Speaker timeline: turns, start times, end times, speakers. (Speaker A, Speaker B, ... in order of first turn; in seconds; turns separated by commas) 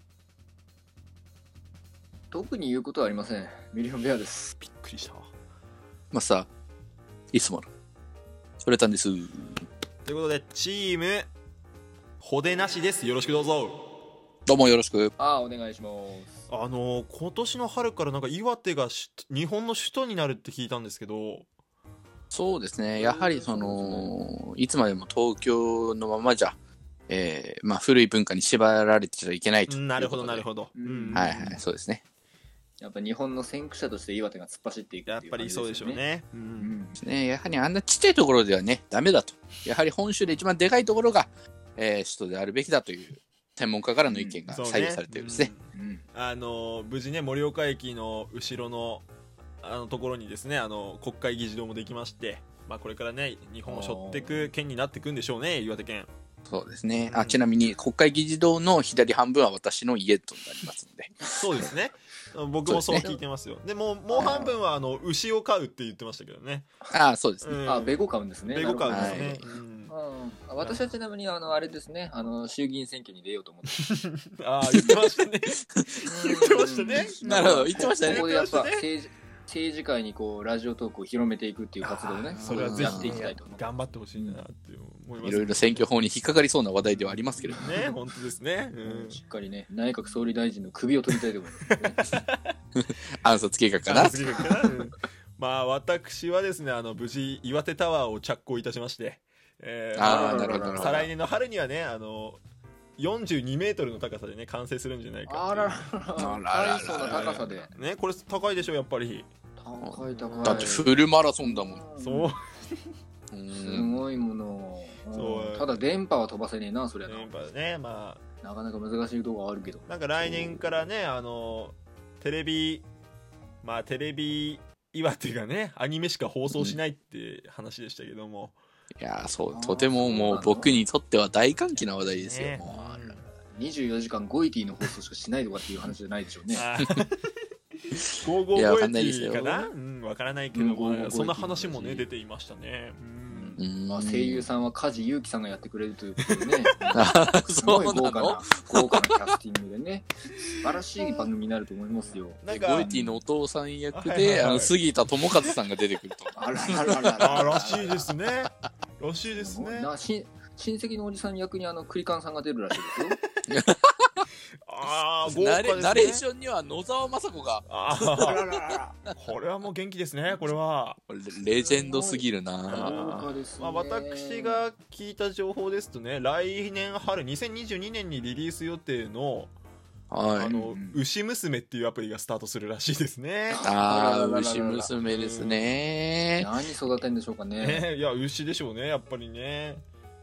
Speaker A: 2.3-4.5, Speaker B: 4.6-5.3, Speaker C: 6.1-6.5, Speaker C: 7.3-7.7, Speaker C: 8.6-9.7, Speaker B: 10.0-11.3, Speaker B: 12.2-13.8, Speaker C: 14.4-15.1, Speaker A: 15.2-16.4, Speaker B: 16.5-21.5, Speaker C: 22.3-26.6, Speaker B: 23.0-23.4, Speaker A: 23.3-24.1, Speaker C: 27.1-30.5, Speaker B: 29.7-31.6, Speaker A: 30.7-31.4, Speaker C: 31.1-32.0, Speaker A: 32.8-36.0, Speaker B: 35.0-36.8, Speaker A: 36.6-37.0, Speaker C: 37.0-45.5, Speaker A: 44.0-44.4, Speaker B: 44.5-49.1, Speaker A: 45.7-46.0, Speaker B: 49.6-56.1, Speaker A: 53.7-54.5, Speaker C: 56.5-61.6, Speaker B: 57.0-57.4, Speaker B: 61.4-66.7, Speaker C: 62.6-63.0, Speaker A: 64.1-64.6, Speaker C: 64.2-64.5, Speaker C: 66.9-67.6, Speaker B: 67.4-68.0, Speaker A: 67.7-73.8, Speaker B: 68.5-69.9, Speaker C: 68.9-69.4, Speaker B: 70.6-70.9, Speaker B: 73.8-78.8, Speaker A: 76.1-83.6, Speaker C: 77.2-78.3, Speaker B: 81.8-85.9, Speaker C: 82.3-83.3, Speaker A: 84.1-84.4, Speaker C: 85.2-87.7, Speaker B: 86.9-89.2, Speaker A: 88.8-92.0, Speaker B: 91.7-92.5, Speaker C: 92.8-94.4, Speaker B: 93.8-102.4, Speaker C: 99.9-101.1, Speaker A: 100.0-101.1, Speaker B: 103.0-105.8, Speaker A: 105.2-107.7, Speaker C: 106.2-107.3, Speaker B: 107.0-109.3, Speaker A: 109.6-112.3, Speaker C: 109.8-111.8, Speaker B: 110.1-110.8, Speaker B: 112.0-112.5, Speaker C: 113.3-114.0, Speaker A: 113.5-117.3, Speaker B: 115.1-115.8, Speaker B: 117.0-118.2, Speaker A: 118.4-119.8, Speaker B: 119.9-122.9, Speaker B: 123.6-128.6, Speaker C: 129.0-133.1, Speaker A: 129.5-130.8, Speaker B: 130.0-130.4, Speaker B: 132.1-133.2, Speaker A: 132.6-136.6, Speaker B: 136.5-137.3, Speaker B: 137.9-143.6, Speaker C: 138.5-139.7, Speaker A: 140.5-142.1, Speaker A: 143.3-153.2, Speaker C: 143.6-144.5, Speaker B: 146.3-147.1, Speaker C: 146.9-149.3, Speaker B: 150.5-151.2, Speaker B: 152.0-152.9, Speaker C: 152.5-157.4, Speaker B: 153.9-154.7, Speaker A: 156.3-158.1, Speaker B: 157.2-159.9, Speaker A: 159.3-163.2, Speaker C: 163.5-164.2, Speaker B: 164.7-166.2, Speaker C: 165.2-168.8, Speaker B: 167.7-168.4, Speaker A: 168.2-168.9, Speaker B: 169.1-171.0, Speaker C: 171.1-173.2, Speaker A: 171.5-174.6, Speaker B: 172.7-179.5, Speaker C: 180.1-180.6, Speaker B: 180.3-183.6, Speaker A: 180.5-181.0, Speaker A: 183.5-184.9, Speaker C: 183.6-186.5, Speaker B: 185.1-185.8, Speaker A: 186.4-187.8, Speaker B: 187.6-189.8